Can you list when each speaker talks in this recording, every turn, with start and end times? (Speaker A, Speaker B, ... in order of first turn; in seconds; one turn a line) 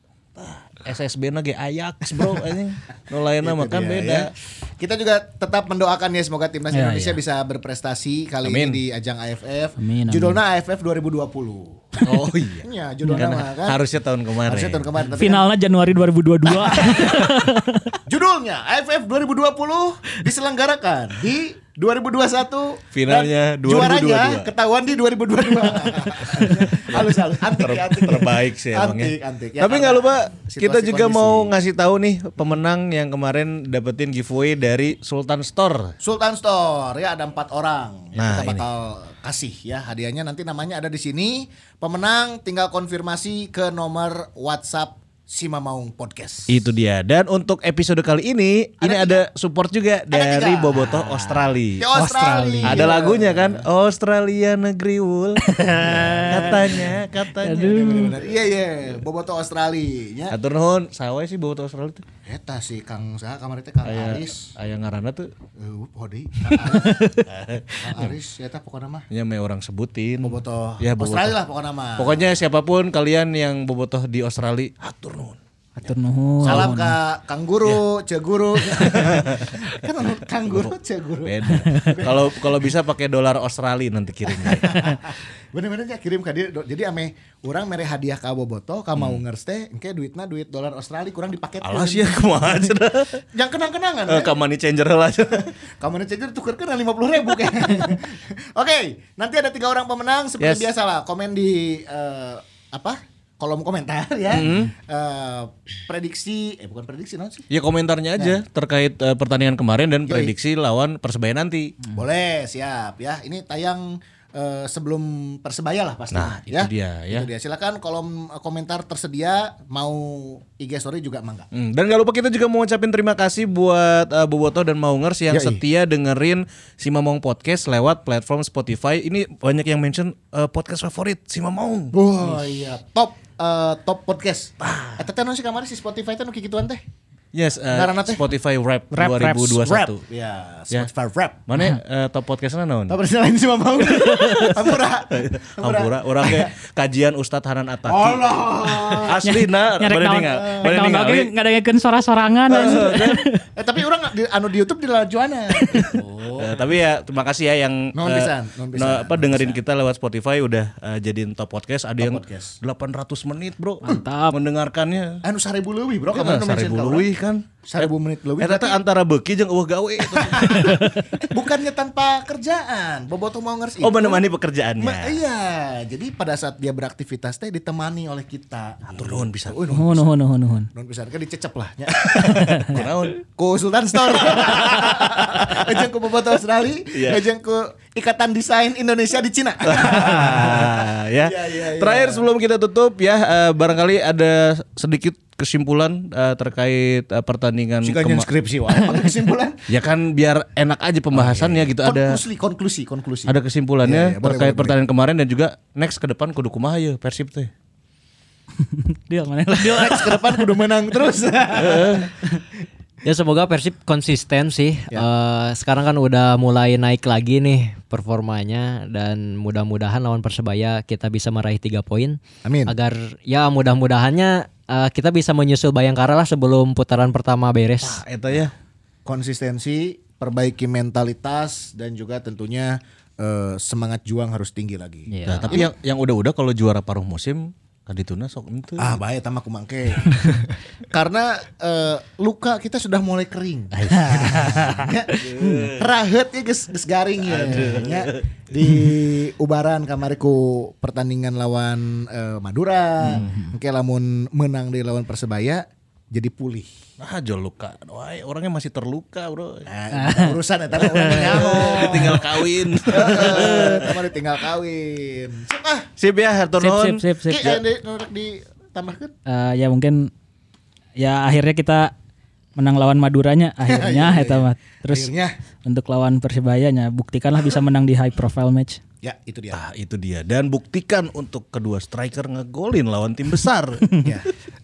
Speaker A: 0.4-4.3
Speaker B: 3.4-13.8
Speaker C: 6.7-7.2
Speaker A: 8.4-8.8
Speaker C: 9.8-10.4
Speaker A: 12.0-14.9
Speaker C: 13.0-13.3
Speaker B: 14.4-15.5
Speaker C: 15.1-18.0
Speaker B: 16.4-17.3
Speaker B: 18.1-31.5
Speaker A: 22.9-24.5
Speaker A: 25.8-35.9
Speaker B: 36.0-46.7
Speaker A: 38.2-38.6
Speaker A: 46.5-51.9
Speaker B: 48.8-49.2
Speaker B: 50.1-53.6
Speaker C: 51.9-53.0
Speaker A: 52.6-58.1
Speaker C: 55.6-56.8
Speaker B: 55.8-57.0
Speaker C: 57.4-58.2
Speaker B: 57.6-60.4
Speaker A: 60.3-62.0
Speaker B: 62.2-64.5
Speaker A: 63.8-65.3
Speaker B: 65.5-67.1
Speaker C: 66.6-67.3
Speaker A: 67.2-68.1
Speaker B: 67.8-69.1
Speaker A: 69.1-71.3
Speaker B: 70.2-72.4
Speaker A: 72.0-75.4
Speaker C: 75.8-77.0
Speaker B: 76.4-82.4
Speaker A: 76.4-76.7
Speaker A: 78.7-79.7
Speaker A: 80.5-85.0
Speaker C: 81.7-82.0
Speaker B: 84.2-92.7
Speaker A: 89.0-89.2
Speaker A: 91.6-93.2
Speaker B: 93.3-94.4
Speaker A: 94.1-95.5
Speaker B: 95.4-107.5
Speaker A: 100.4-100.7
Speaker A: 104.3-104.7
Speaker A: 107.5-111.8
Speaker B: 108.2-108.4
Speaker B: 110.0-110.3
Speaker B: 111.9-121.5
Speaker A: 116.1-117.3
Speaker A: 121.5-131.9
Speaker B: 125.3-125.6
Speaker B: 131.9-136.8
Speaker A: 134.6-135.0
Speaker A: 137.3-140.0
Speaker B: 137.7-138.3
Speaker C: 138.9-139.9
Speaker B: 139.8-141.4
Speaker A: 141.5-143.0
Speaker B: 142.9-146.5
Speaker A: 143.8-151.3
Speaker B: 147.8-149.2
Speaker C: 149.2-153.4
Speaker B: 150.4-150.7
Speaker B: 152.5-156.6
Speaker A: 152.5-153.2
Speaker C: 155.5-156.0
Speaker A: 156.3-165.2
Speaker B: 157.9-159.6
Speaker B: 162.0-162.6
Speaker C: 163.8-164.4
Speaker B: 165.2-167.1
Speaker A: 166.1-171.1
Speaker B: 167.6-168.8
Speaker B: 170.0-174.2
Speaker A: 173.8-175.2
Speaker B: 174.8-180.1
Speaker A: 178.9-179.7
Speaker C: 179.7-180.7
Speaker B: 180.7-192.3
Speaker A: 182.0-183.2
Speaker A: 184.1-185.7
Speaker A: 186.9-187.2
Speaker A: 189.6-198.3
Speaker B: 197.8-199.6
Speaker A: 199.7-202.2
Speaker B: 201.1-204.8
Speaker A: 203.2-207.5
Speaker C: 208.6-210.5
Speaker B: 209.5-212.1
Speaker A: 211.6-212.1
Speaker D: 213.0-228.0
Speaker B: 222.4-222.7
Speaker A: 227.8-228.5
Speaker B: 229.0-235.7
Speaker C: 235.1-235.6
Speaker A: 235.2-239.0
Speaker B: 238.8-256.7
Speaker C: 243.9-244.8
Speaker A: 244.1-244.6
Speaker A: 245.2-245.9
Speaker C: 245.4-245.7
Speaker A: 247.2-248.2
Speaker C: 253.1-253.5
Speaker A: 257.0-259.7
Speaker B: 259.6-265.9
Speaker C: 259.9-260.4
Speaker A: 260.7-264.0
Speaker A: 266.0-267.0
Speaker C: 266.6-267.6
Speaker B: 267.2-269.1
Speaker C: 269.2-270.1
Speaker C: 271.0-271.9
Speaker C: 272.6-275.1
Speaker B: 273.6-275.3
Speaker C: 275.6-278.8
Speaker B: 279.0-279.6
Speaker A: 279.5-284.1
Speaker B: 284.0-284.3